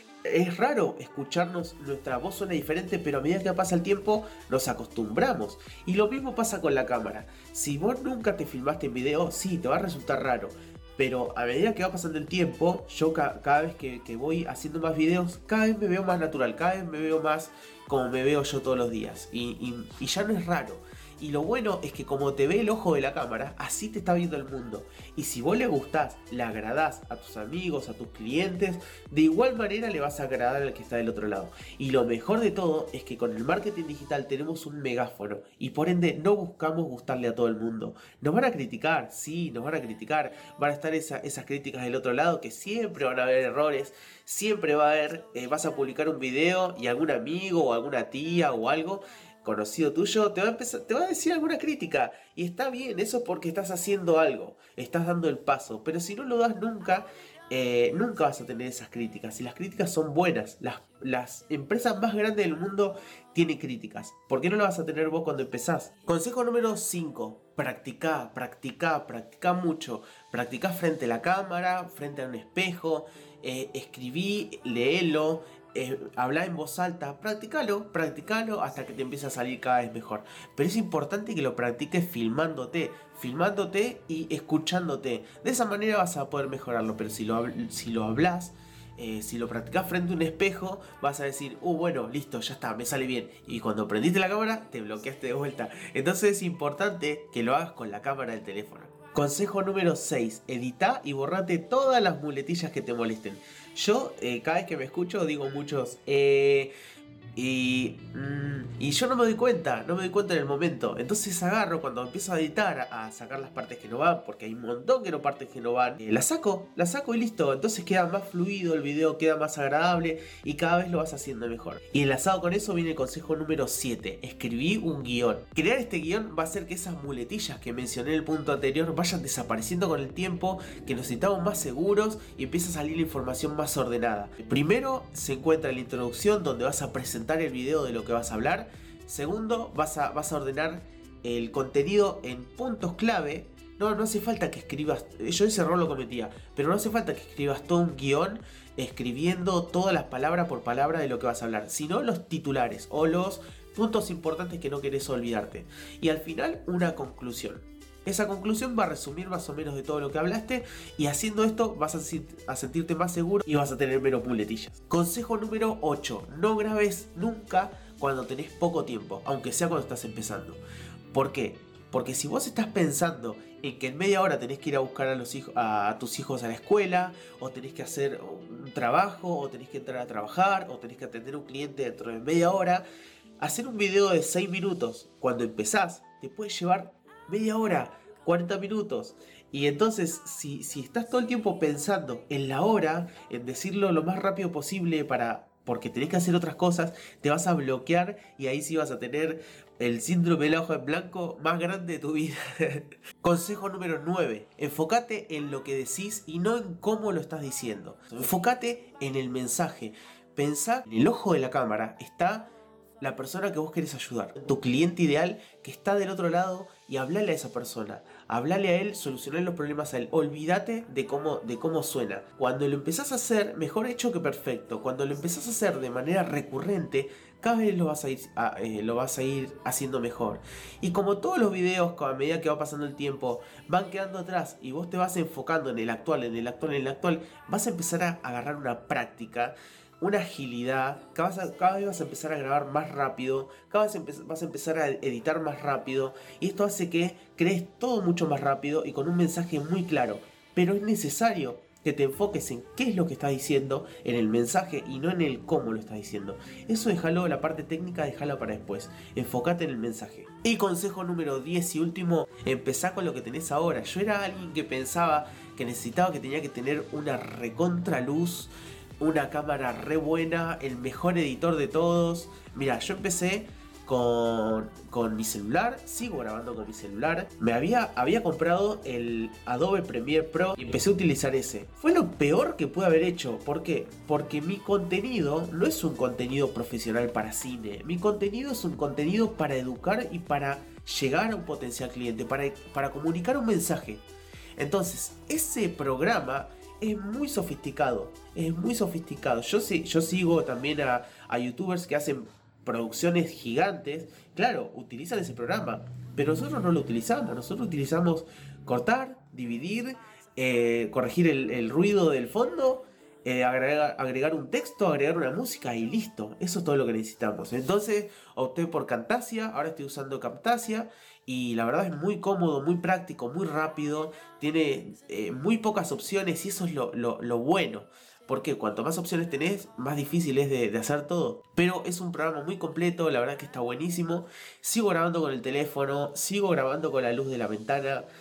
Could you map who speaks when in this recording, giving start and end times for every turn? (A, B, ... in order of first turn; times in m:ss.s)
0:00.2-1:46.7 A
1:47.4-2:50.6 A
2:51.1-3:02.8 A
3:03.4-4:54.0 A
4:54.6-5:38.1 A